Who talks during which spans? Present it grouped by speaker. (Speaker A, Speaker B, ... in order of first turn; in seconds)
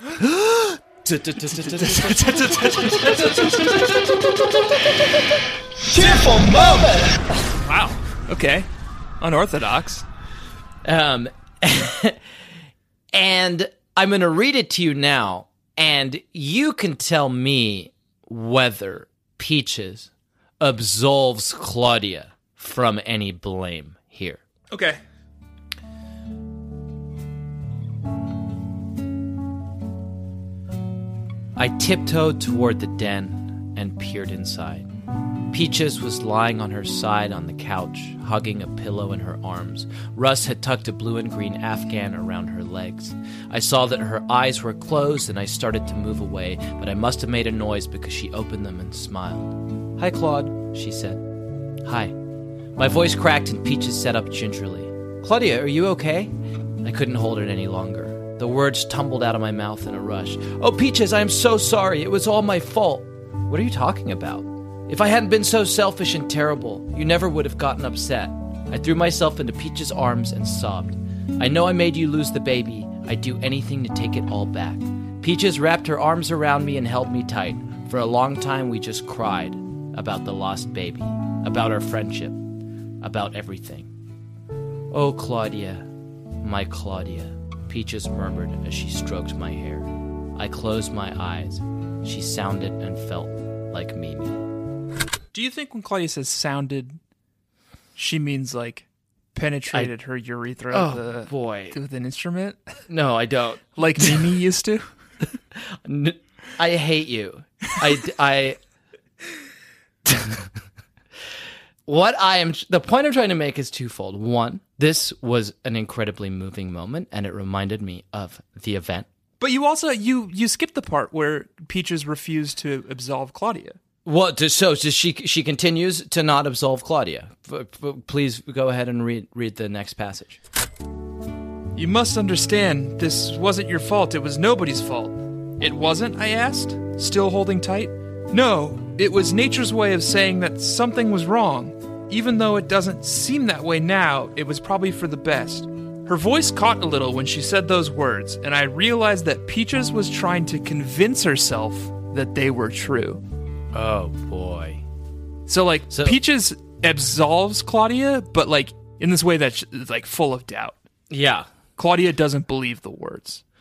Speaker A: 0.2-4.0, 5.9-7.2, 10.8-12.2, 13.1-24.4, 31.6-34.9, 35.5-51.2, 51.8-52.1, 52.8-82.4, 83.0-83.9, 84.9-85.9, 86.4-94.4, 100.7-101.8, 102.9-104.3, 105.6-108.6, 110.1-110.5, 111.9-119.1, 124.0-130.4, 153.7-154.8, 155.9-156.2, 161.1-161.5
Speaker B: 1.5-3.7, 6.0-6.4, 7.6-8.7, 9.2-10.1, 24.7-25.0, 95.3-97.0, 98.0-102.6, 103.8-104.9, 119.4-123.8, 131.8-153.2, 155.5-160.8, 161.8-163.4